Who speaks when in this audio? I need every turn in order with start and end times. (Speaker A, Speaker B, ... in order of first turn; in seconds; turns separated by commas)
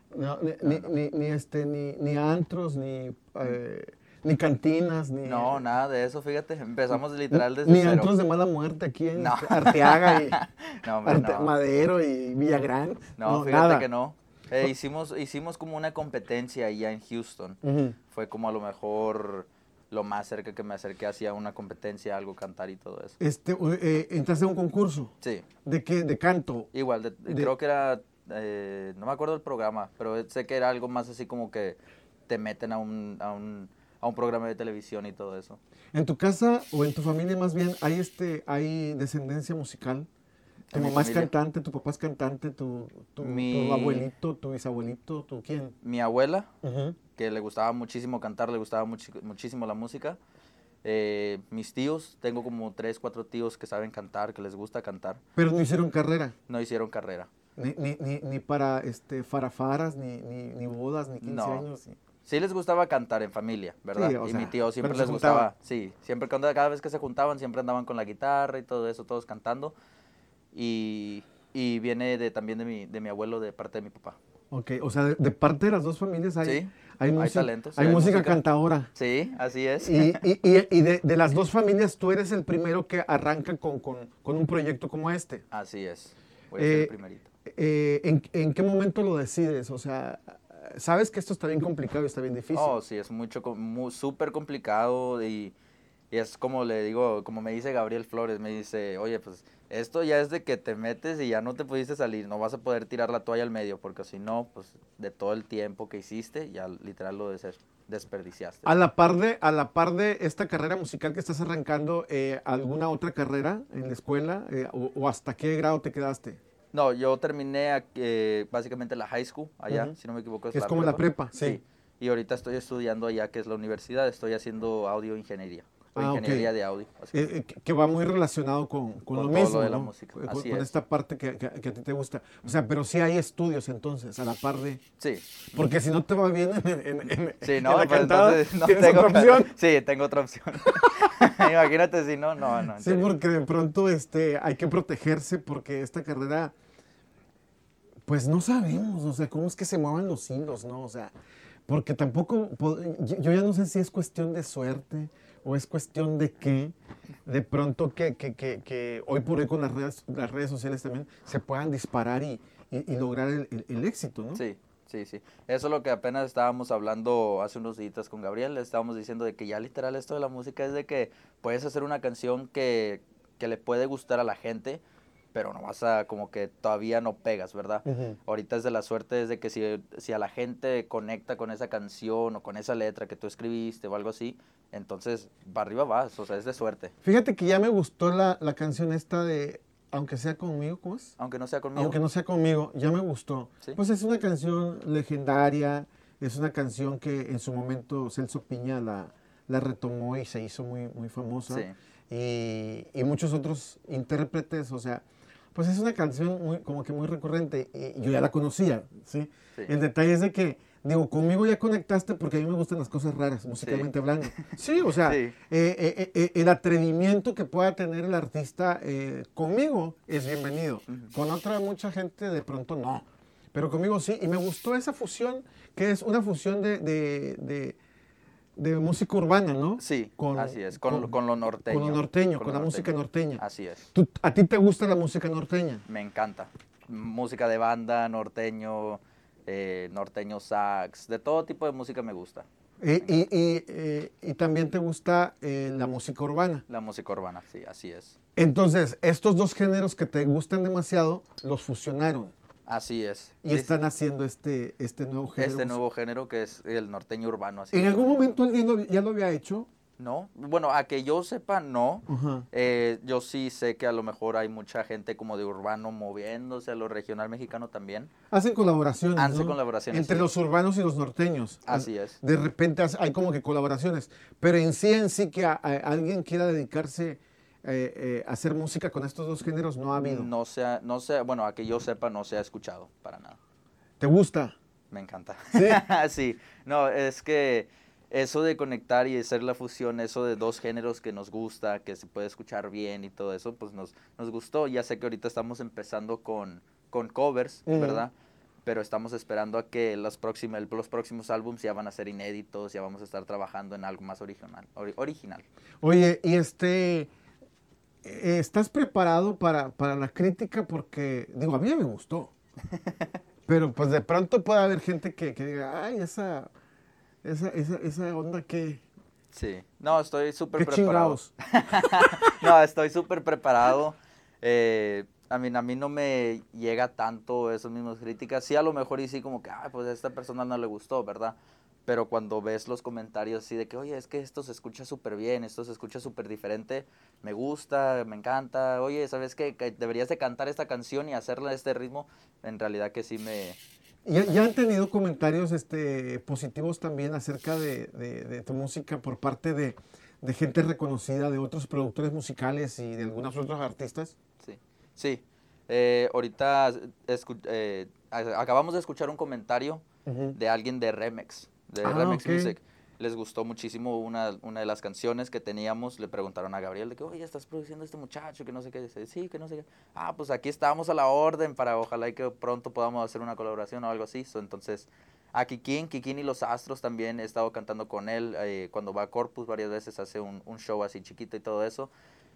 Speaker A: 0.1-5.6, Speaker B: 0.6-0.9, Speaker B: 5.2-8.2, Speaker A: 7.3-10.4, Speaker B: 9.2-11.6, Speaker A: 11.0-13.9, Speaker B: 13.2-17.6, Speaker A: 17.6-18.0, Speaker B: 18.1-23.2, Speaker A: 23.2-25.1, Speaker A: 25.6-26.7, Speaker B: 26.7-35.6, Speaker A: 27.3-27.5, Speaker A: 35.9-40.1, Speaker B: 40.7-41.3, Speaker A: 40.7-45.8, Speaker B: 43.2-44.1, Speaker B: 45.8-46.5, Speaker A: 46.6-47.0, Speaker B: 47.2-50.2, Speaker B: 50.8-55.2, Speaker A: 55.4-56.3, Speaker B: 56.5-57.3, Speaker A: 57.6-62.0, Speaker B: 61.2-61.7, Speaker B: 62.3-69.7, Speaker A: 64.0-65.5, Speaker B: 70.5-74.2, Speaker A: 74.5-78.9, Speaker B: 76.4-78.4, Speaker B: 79.0-80.2, Speaker A: 79.8-85.4, Speaker B: 85.5-87.3, Speaker A: 86.6-86.9, Speaker A: 87.5-92.7, Speaker B: 92.5-95.5, Speaker B: 96.1-108.8, Speaker A: 108.7-116.4, Speaker B: 116.7-127.3, Speaker A: 119.7-120.0, Speaker A: 120.5-121.6, Speaker A: 126.0-126.5, Speaker A: 127.1-134.8, Speaker B: 129.1-130.7, Speaker B: 135.0-135.4, Speaker A: 135.5-139.5, Speaker B: 137.4-143.1, Speaker A: 142.8-146.5, Speaker A: 148.1-151.1, Speaker A: 151.7-156.7, Speaker A: 157.3-164.4, Speaker B: 164.3-174.8, Speaker B: 175.3-186.9, Speaker A: 177.8-178.2, Speaker A: 187.0-191.1, Speaker B: 191.2-192.0, Speaker A: 191.8-205.0, Speaker B: 201.5-201.7, Speaker A: 205.6-227.8, Speaker B: 213.6-215.3, Speaker B: 220.9-221.1, Speaker A: 228.6-233.4, Speaker B: 229.8-233.9, Speaker A: 233.9-235.8, Speaker B: 235.9-242.5, Speaker A: 242.8-246.6, Speaker B: 246.7-248.2, Speaker A: 248.4-252.3, Speaker B: 252.7-253.7, Speaker A: 253.4-255.8, Speaker B: 255.4-258.4, Speaker A: 257.7-259.7, Speaker B: 260.0-268.1, Speaker A: 262.1-262.5, Speaker A: 268.3-280.3, Speaker B: 269.1-270.3, Speaker B: 271.7-272.2, Speaker B: 280.0-283.4, Speaker A: 284.0-284.6, Speaker B: 284.9-298.1, Speaker A: 285.5-285.8, Speaker A: 297.7-298.1, Speaker B: 298.6-305.4, Speaker A: 305.8-307.1, Speaker A: 308.0-312.3, Speaker B: 312.8-313.1, Speaker A: 313.5-316.5, Speaker A: 317.2-318.8, Speaker B: 319.3-343.6, Speaker A: 320.6-322.4, Speaker A: 344.1-354.1, Speaker B: 354.4-359.8, Speaker A: 360.1-360.4, Speaker B: 360.4-381.9, Speaker A: 361.8-362.6